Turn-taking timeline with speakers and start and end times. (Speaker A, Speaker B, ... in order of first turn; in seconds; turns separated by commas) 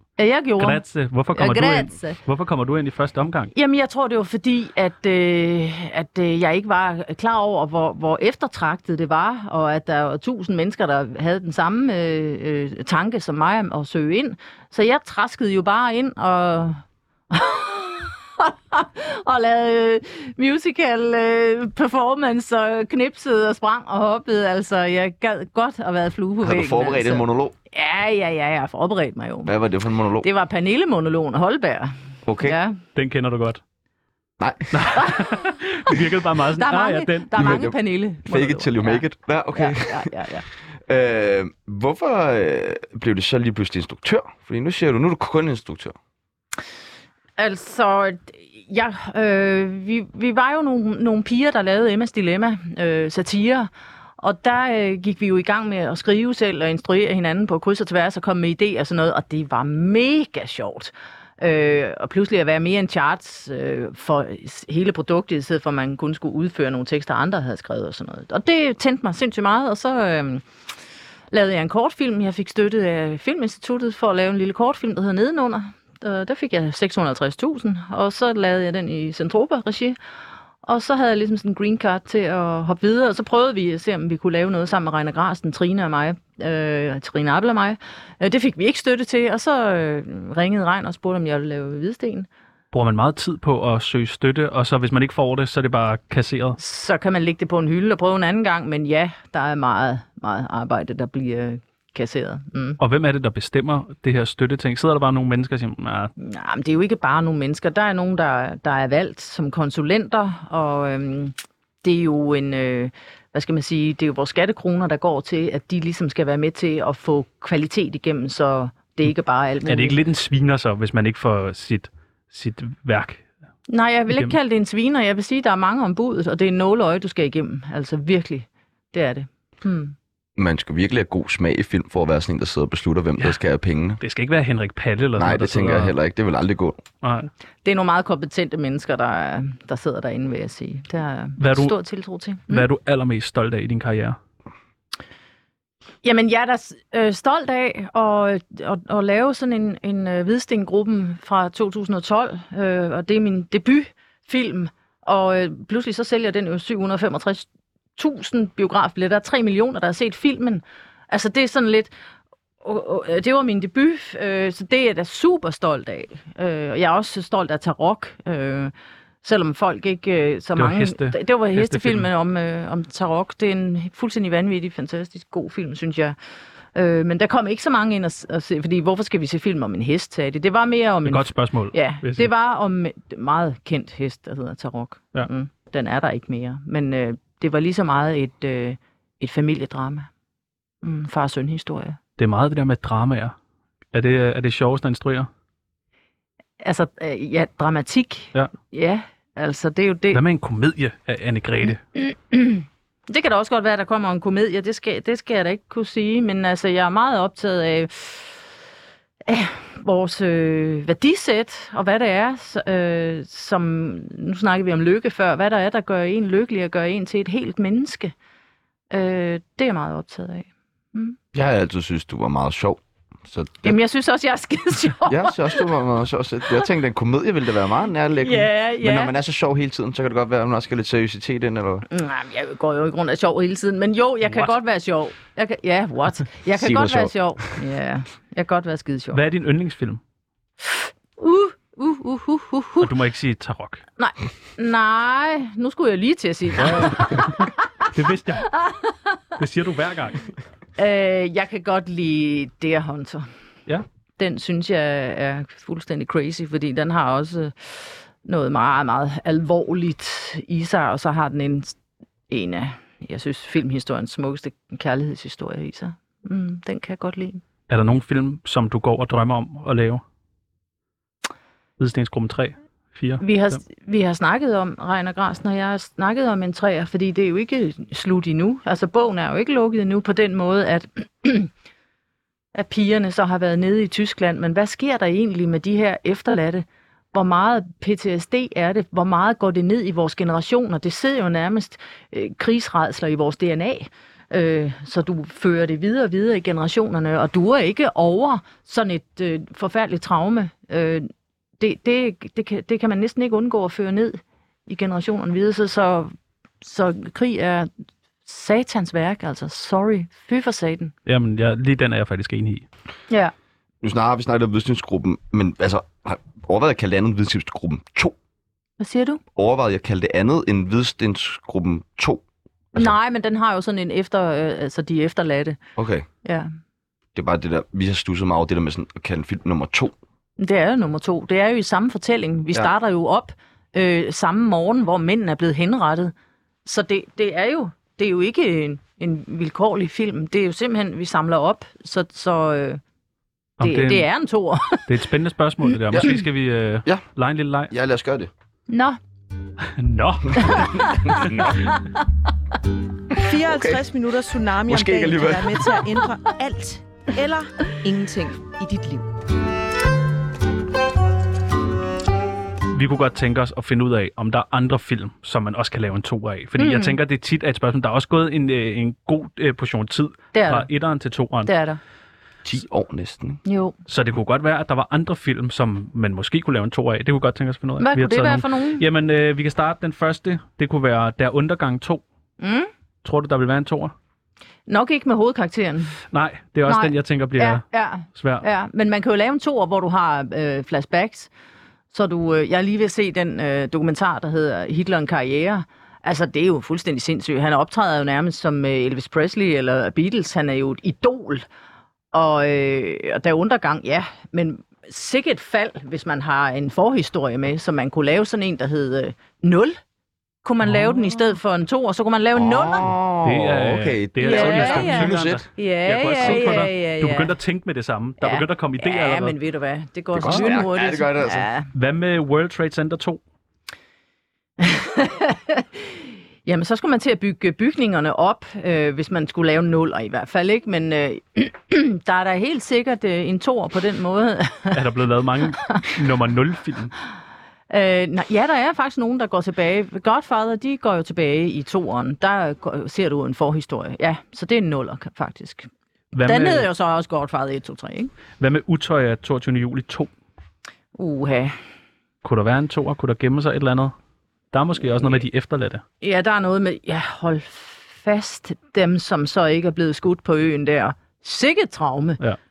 Speaker A: 0.2-0.8, Speaker B: 0.6-3.5, Speaker A: 1.3-2.2, Speaker A: 3.5-29.5, Speaker C: 26.4-27.5, Speaker C: 29.4-30.3, Speaker A: 30.2-32.8, Speaker C: 32.2-32.6, Speaker B: 32.9-33.6, Speaker C: 34.4-35.1, Speaker B: 34.7-37.4, Speaker A: 34.9-35.4, Speaker A: 36.5-40.5, Speaker C: 37.3-40.1, Speaker C: 40.7-45.9, Speaker A: 47.4-70.4, Speaker A: 71.3-80.0, Speaker A: 80.6-92.3, Speaker B: 92.7-96.6, Speaker A: 96.6-102.8, Speaker B: 102.8-106.1, Speaker A: 106.2-120.0, Speaker B: 119.7-123.2, Speaker A: 123.7-129.9, Speaker C: 130.4-134.0, Speaker B: 134.0-135.9, Speaker C: 135.2-136.8, Speaker B: 137.0-137.3, Speaker A: 137.6-142.7, Speaker B: 141.4-141.7, Speaker B: 142.5-144.2, Speaker A: 146.0-157.4, Speaker A: 158.0-161.9, Speaker A: 162.6-176.1, Speaker B: 170.6-172.1, Speaker A: 176.7-190.1, Speaker B: 181.1-182.3, Speaker A: 190.8-192.0, Speaker B: 192.2-193.3, Speaker B: 193.9-195.3, Speaker A: 196.6-200.2, Speaker B: 200.1-201.8, Speaker A: 201.9-208.4, Speaker A: 209.3-218.1, Speaker A: 218.9-221.2, Speaker C: 221.3-223.8, Speaker A: 223.6-225.7, Speaker C: 225.1-231.8, Speaker A: 228.2-229.1, Speaker A: 231.9-239.2, Speaker C: 236.5-237.5, Speaker B: 239.1-240.0, Speaker A: 240.7-242.9, Speaker B: 242.8-243.8, Speaker A: 244.0-247.6, Speaker B: 246.6-248.6, Speaker A: 248.5-249.1, Speaker B: 249.4-250.3, Speaker A: 250.8-253.3, Speaker A: 254.2-261.8, Speaker A: 262.3-267.4, Speaker B: 267.7-270.0, Speaker B: 271.8-273.6, Speaker A: 273.2-281.5, Speaker A: 282.5-307.7, Speaker A: 308.2-310.9, Speaker B: 311.1-312.6, Speaker C: 313.8-318.1, Speaker A: 318.8-319.2, Speaker C: 319.3-322.2, Speaker A: 322.7-325.6, Speaker C: 325.8-326.1, Speaker A: 326.2-326.5, Speaker C: 327.1-329.9, Speaker A: 330.4-336.1, Speaker A: 336.6-342.8, Speaker B: 343.6-344.1, Speaker A: 343.6-344.9, Speaker B: 344.9-347.7, Speaker C: 347.7-348.3, Speaker A: 348.7-349.0, Speaker B: 349.8-351.4, Speaker A: 350.4-351.1, Speaker C: 351.0-351.8, Speaker C: 353.1-353.8, Speaker D: 353.2-359.1, Speaker C: 354.7-355.9, Speaker B: 362.7-371.5, Speaker A: 366.6-367.0, Speaker A: 370.3-370.7, Speaker A: 371.4-371.8, Speaker C: 372.4-373.4, Speaker A: 373.4-373.8, Speaker B: 373.9-382.0, Speaker A: 377.8-378.8, Speaker A: 382.4-382.7, Speaker B: 383.0-383.9, Speaker A: 384.7-386.0, Speaker B: 386.1-388.4, Speaker A: 386.7-391.3, Speaker A: 391.9-401.4, Speaker A: 402.1-409.8, Speaker A: 410.4-412.9, Speaker C: 412.4-415.4, Speaker B: 413.2-419.4, Speaker A: 414.2-417.3, Speaker A: 418.2-421.7, Speaker C: 420.1-421.5, Speaker B: 420.2-420.5, Speaker B: 421.7-423.2, Speaker A: 424.6-434.8, Speaker B: 434.7-436.9, Speaker A: 437.7-445.7, Speaker B: 446.1-446.7, Speaker A: 446.2-448.1, Speaker B: 448.4-450.1, Speaker A: 450.9-451.5, Speaker B: 452.2-453.9, Speaker B: 454.5-455.8, Speaker A: 456.0-462.2